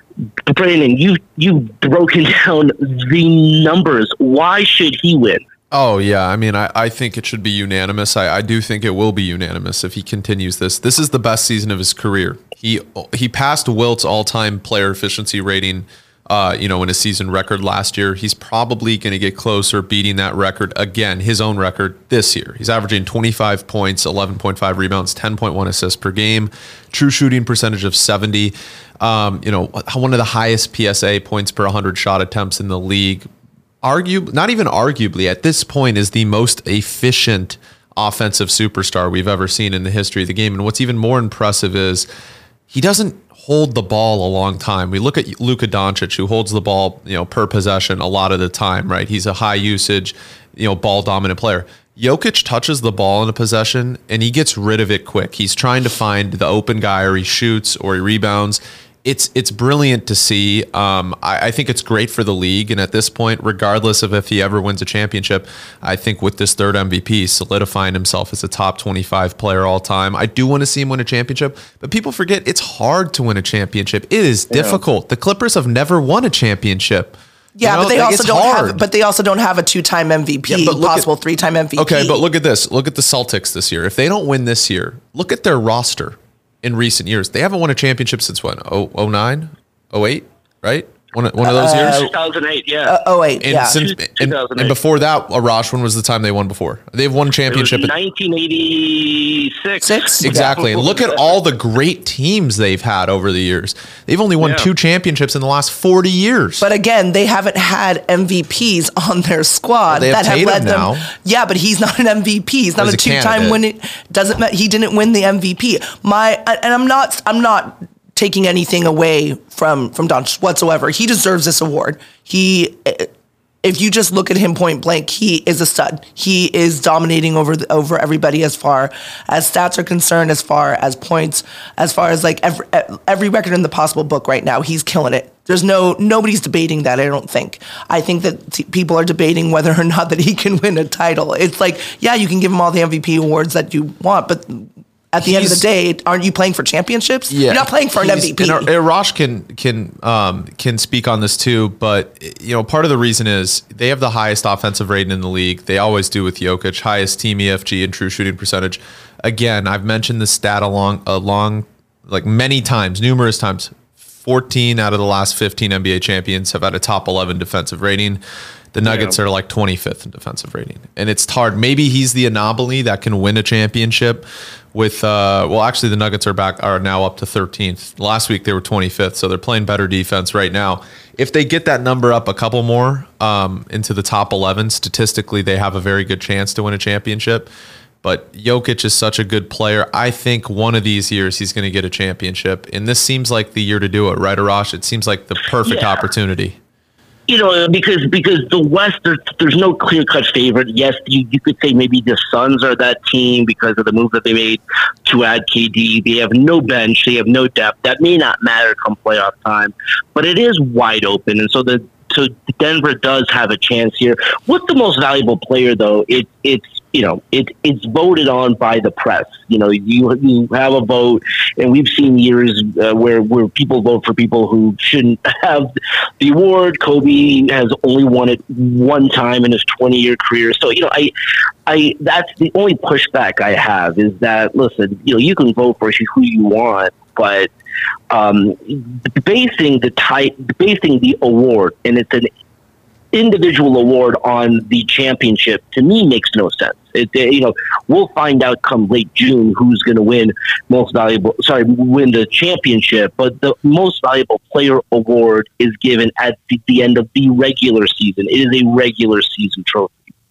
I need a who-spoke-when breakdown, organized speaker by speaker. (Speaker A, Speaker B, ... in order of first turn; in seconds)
Speaker A: 0.5-5.4, 74.5-74.8, 91.7-93.0, 93.7-94.8, 97.5-101.4, 104.4-104.7, 168.9-169.2, 195.7-196.1, 197.3-231.1, 231.7-237.5, 238.1-242.3, 243.1-260.1
Speaker B: 5.7-33.3, 33.8-42.1, 42.7-78.8, 80.5-81.1, 81.8-92.1, 93.4-97.9, 100.2-106.7, 109.9-111.1, 112.8-113.6, 145.2-145.6, 147.3-168.2, 168.7-187.5, 188.0-196.6
Speaker C: 77.6-82.2, 91.4-92.1, 92.9-93.8, 99.8-100.6, 106.6-123.1, 123.6-148.7